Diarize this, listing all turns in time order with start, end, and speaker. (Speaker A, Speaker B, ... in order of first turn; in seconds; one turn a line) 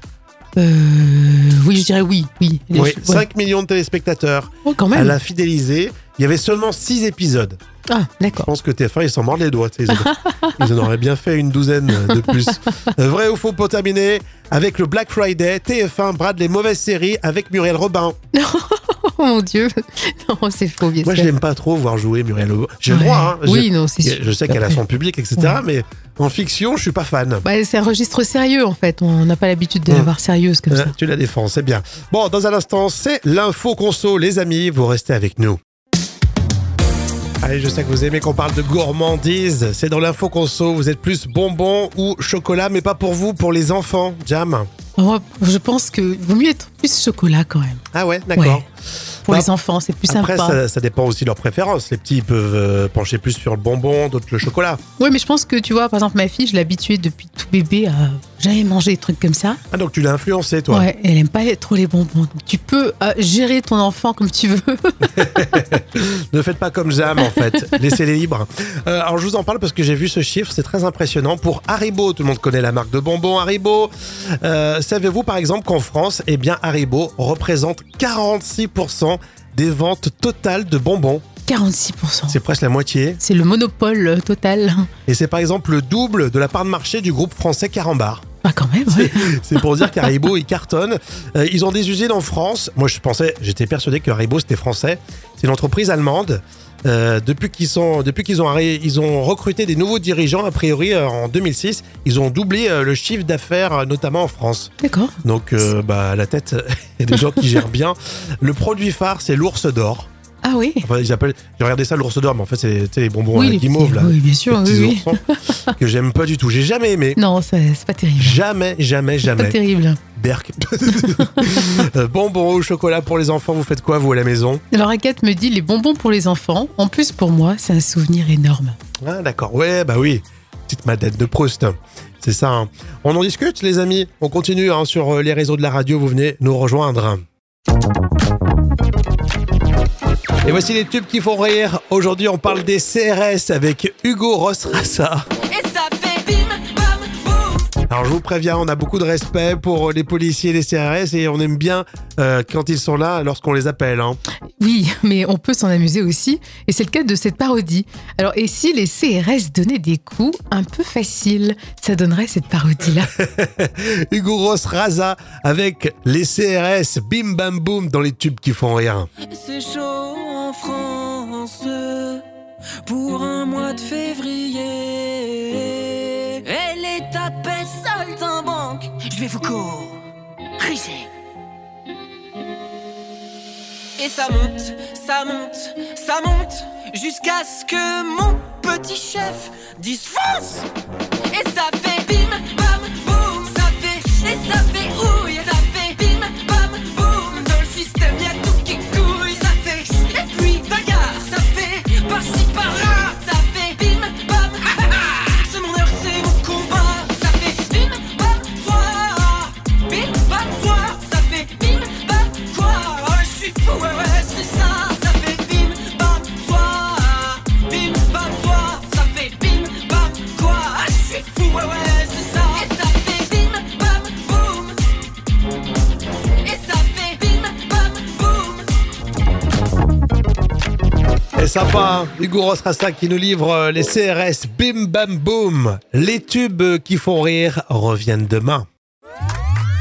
Speaker A: 0.6-3.2
Speaker B: 2.7-7.6
Speaker A: 4.6-5.1
Speaker A: 7.9-8.5
Speaker B: 8.4-18.1
Speaker A: 9.9-10.5
Speaker A: 12.0-12.5
Speaker A: 18.3-21.3
Speaker B: 21.0-27.4
Speaker A: 22.9-24.8
Speaker A: 27.4-30.9
Speaker B: 30.7-35.6
Speaker B: 37.4-44.7
Speaker A: 45.0-47.8
Speaker B: 47.9-48.6
Speaker A: 48.3-48.6
Speaker A: 49.3-50.6
Speaker B: 50.1-54.8
Speaker A: 55.0-59.6
Speaker B: 59.7-60.9
Speaker A: 60.7-65.1
Speaker B: 65.1-81.2
Speaker A: 81.5-82.4
Speaker B: 82.3-83.2
Speaker A: 83.2-84.9
Speaker B: 85.1-88.2
Speaker A: 88.4-89.4
Speaker B: 88.9-104.7
Speaker A: 104.8-105.1
Speaker B: 105.2-110.1
Speaker A: 110.4-110.8
Speaker B: 110.8-115.2
Speaker A: 113.3-115.7
Speaker B: 115.8-117.2
Speaker A: 117.2-118.4
Speaker B: 118.2-119.5
Speaker A: 119.3-120.0
Speaker B: 120.2-124.6
Speaker A: 124.7-128.8
Speaker B: 129.0-137.2
Speaker B: 140.4-145.3
Speaker C: 145.5-147.7
Speaker B: 147.9-154.2
Speaker A: 154.6-163.1
Speaker B: 163.1-169.1
Speaker C: 169.3-172.2
Speaker C: 172.8-180.0
Speaker C: 180.6-181.1
Speaker C: 184.0-190.7
Speaker C: 191.3-224.9
Speaker C: 226.4-228.7
Speaker B: 231.3-238.7